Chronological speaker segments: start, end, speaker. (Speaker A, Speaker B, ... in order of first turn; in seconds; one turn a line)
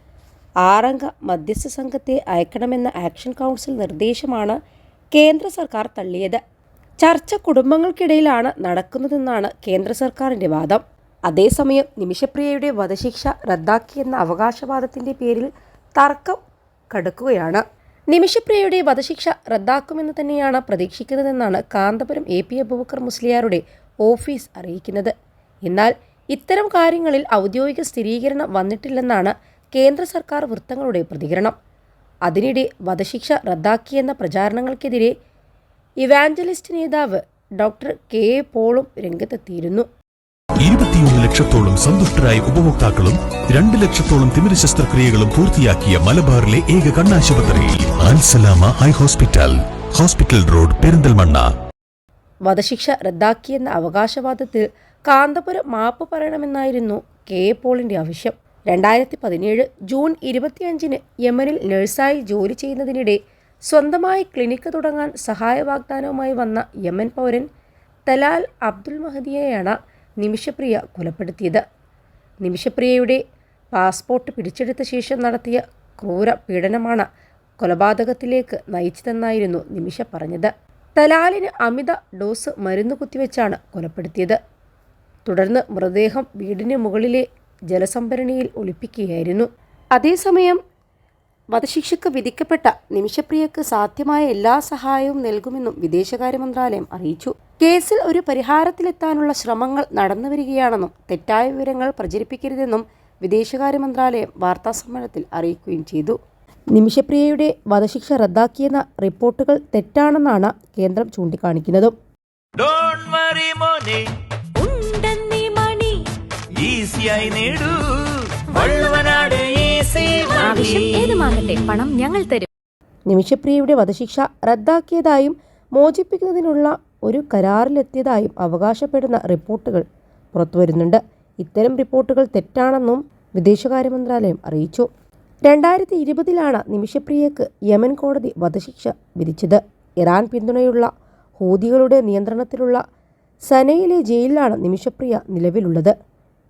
Speaker A: 0.6-4.6
Speaker A: 5.1-6.4
Speaker A: 7.0-16.4
Speaker A: 16.9-25.1
Speaker A: 25.7-31.6
Speaker A: 32.3-35.1
Speaker A: 36.0-39.9
Speaker B: 40.6-51.5
Speaker A: 52.5-67.5
Speaker A: 68.1-71.6
Speaker A: 72.4-73.2
Speaker A: 73.7-77.1
Speaker A: 77.6-84.4
Speaker A: 85.3-90.6
Speaker A: 91.5-106.2
Speaker A: 106.7-112.0
Speaker C: 112.6-114.1
Speaker D: 114.6-116.0
Speaker C: 116.6-121.2
Speaker D: 120.4-122.5
Speaker A: 123.1-134.9
Speaker A: 135.5-142.8
Speaker A: 143.5-145.9